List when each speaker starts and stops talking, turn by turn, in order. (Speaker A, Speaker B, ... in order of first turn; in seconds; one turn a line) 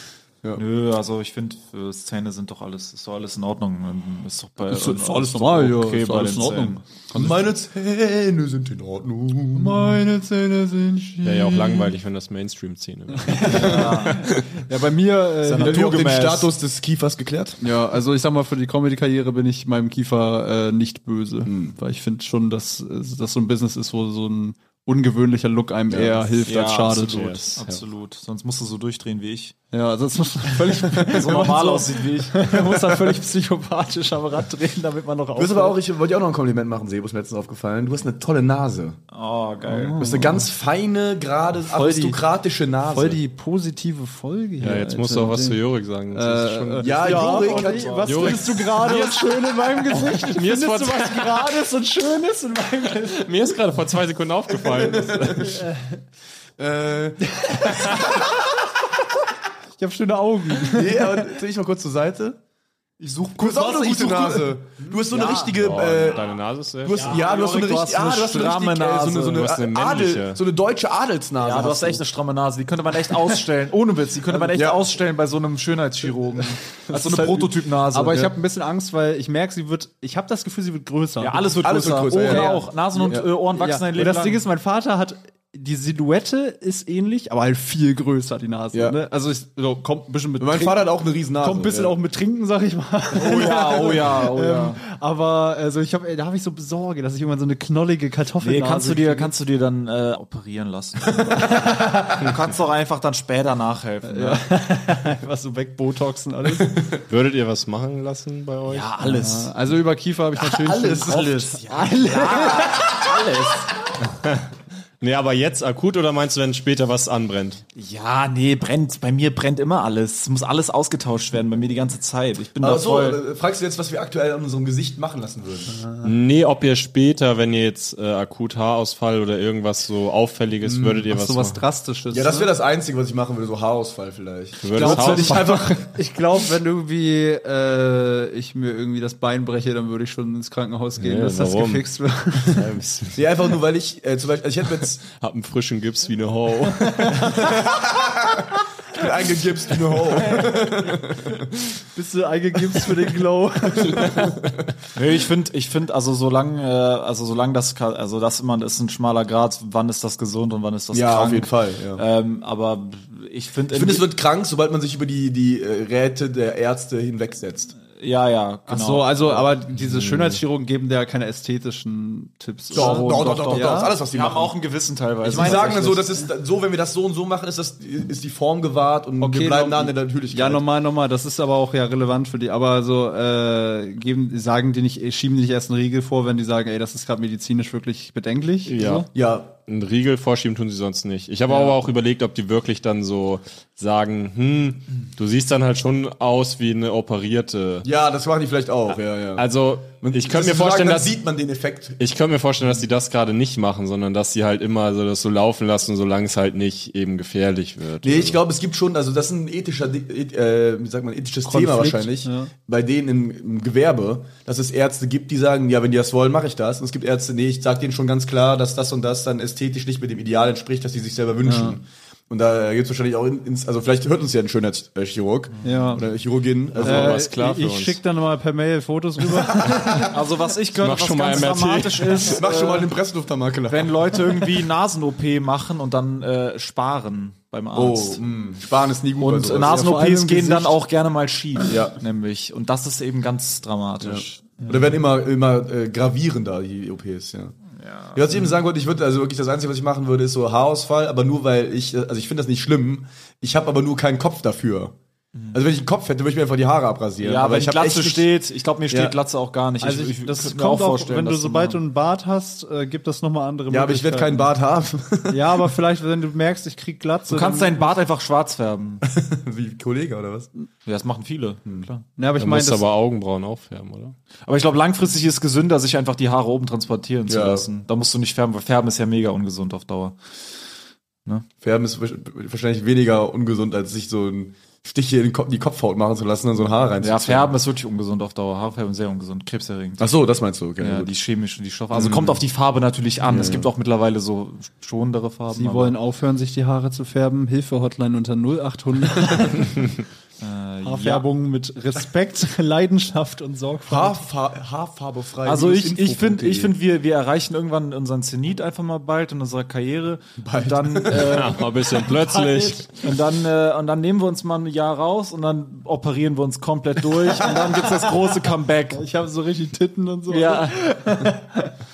Speaker A: 0.6-6.8
Speaker B: 4.7-7.3
Speaker C: 7.1-10.0
Speaker B: 9.5-11.9
Speaker D: 11.2-13.9
Speaker B: 13.2-16.0
Speaker A: 13.4-14.3
Speaker C: 13.5-14.1
Speaker A: 15.4-16.5
Speaker C: 15.5-17.6
Speaker B: 17.6-27.4
Speaker C: 21.4-21.8
Speaker C: 25.9-26.3
Speaker A: 26.4-29.5
Speaker D: 26.9-27.8
Speaker B: 29.7-35.8
Speaker A: 30.9-32.5
Speaker C: 30.9-31.5
Speaker C: 35.4-39.0
Speaker A: 39.1-40.0
Speaker B: 39.6-40.5
Speaker C: 40.0-43.2
Speaker A: 41.7-42.2
Speaker B: 42.8-45.6
Speaker D: 44.6-47.3
Speaker B: 46.1-53.4
Speaker C: 46.8-48.5
Speaker A: 47.2-49.1
Speaker D: 48.0-49.2
Speaker D: 49.9-51.6
Speaker D: 53.0-55.6
Speaker C: 54.6-55.6
Speaker B: 55.4-56.0
Speaker C: 56.6-58.1
Speaker B: 57.2-58.5
Speaker B: 59.8-61.3
Speaker C: 60.6-62.4
Speaker B: 63.0-64.6
Speaker C: 63.4-72.0
Speaker A: 64.9-65.6
Speaker D: 65.6-67.2
Speaker A: 67.0-69.5
Speaker D: 69.3-70.4
Speaker A: 71.4-78.3
Speaker C: 74.3-74.9
Speaker B: 76.9-81.6
Speaker C: 77.0-77.4
Speaker A: 81.2-84.4
Speaker C: 81.6-83.3
Speaker B: 82.2-90.9
Speaker C: 88.7-89.0
Speaker C: 90.4-92.0
Speaker B: 91.4-99.3
Speaker C: 93.1-94.1
Speaker A: 93.2-94.8
Speaker A: 98.4-104.5
Speaker B: 101.3-102.2
Speaker B: 104.0-106.9
Speaker C: 106.6-106.9
Speaker D: 107.1-108.9
Speaker A: 108.7-109.5
Speaker B: 109.0-113.2
Speaker C: 110.5-111.5
Speaker A: 110.9-113.7
Speaker D: 114.0-117.6
Speaker A: 117.8-123.2
Speaker C: 122.6-125.8
Speaker D: 126.0-131.7
Speaker C: 130.6-131.0
Speaker B: 131.1-132.5
Speaker C: 132.1-135.9
Speaker D: 134.6-135.8
Speaker B: 134.7-142.7
Speaker D: 141.0-141.9
Speaker D: 142.4-143.2
Speaker C: 143.1-145.0
Speaker D: 145.1-147.4
Speaker B: 146.9-147.4
Speaker C: 147.3-148.4
Speaker C: 148.9-151.5
Speaker B: 150.3-150.9
Speaker B: 151.9-154.4
Speaker C: 153.9-154.5
Speaker A: 154.9-164.1
Speaker C: 160.9-162.0
Speaker C: 163.7-167.8
Speaker A: 167.9-169.5
Speaker B: 168.7-173.9
Speaker D: 169.9-170.4
Speaker C: 172.7-174.6
Speaker A: 172.7-176.2
Speaker C: 175.2-180.7
Speaker B: 179.2-189.1
Speaker D: 188.7-189.1
Speaker C: 189.1-189.5
Speaker D: 189.7-197.9
Speaker C: 197.8-199.5
Speaker D: 199.3-201.2
Speaker C: 200.0-202.0
Speaker D: 202.0-208.4
Speaker C: 208.0-227.2
Speaker B: 211.5-212.5
Speaker B: 221.4-221.8
Speaker A: 225.6-226.0
Speaker B: 225.6-226.1
Speaker D: 226.8-228.0
Speaker B: 226.8-230.2
Speaker A: 229.9-232.9
Speaker D: 230.7-232.3
Speaker C: 232.3-234.4
Speaker A: 233.7-238.2
Speaker C: 237.8-239.9
Speaker A: 239.2-244.9
Speaker B: 239.5-240.8
Speaker C: 241.7-241.9
Speaker C: 244.0-247.6
Speaker A: 247.8-248.5
Speaker C: 248.1-254.9
Speaker C: 255.5-258.3
Speaker A: 257.2-261.8
Speaker C: 258.9-259.2
Speaker B: 259.8-264.5
Speaker C: 263.7-265.7
Speaker B: 265.3-267.9
Speaker A: 267.3-269.0
Speaker C: 269.0-270.5
Speaker A: 270.9-272.1
Speaker B: 272.2-272.8
Speaker D: 272.4-274.2
Speaker A: 274.5-280.2
Speaker C: 277.3-277.7
Speaker C: 281.6-287.6
Speaker A: 287.0-290.1
Speaker C: 290.0-291.1
Speaker A: 290.8-295.9
Speaker C: 291.9-292.4
Speaker C: 293.3-293.7
Speaker B: 295.5-300.0
Speaker A: 300.4-301.3
Speaker B: 300.8-304.2
Speaker C: 303.9-306.7
Speaker A: 305.4-311.7
Speaker C: 310.4-311.5
Speaker D: 311.2-312.9
Speaker B: 312.1-312.9
Speaker A: 312.9-319.0
Speaker B: 317.4-318.2
Speaker B: 318.9-321.7
Speaker A: 320.3-320.8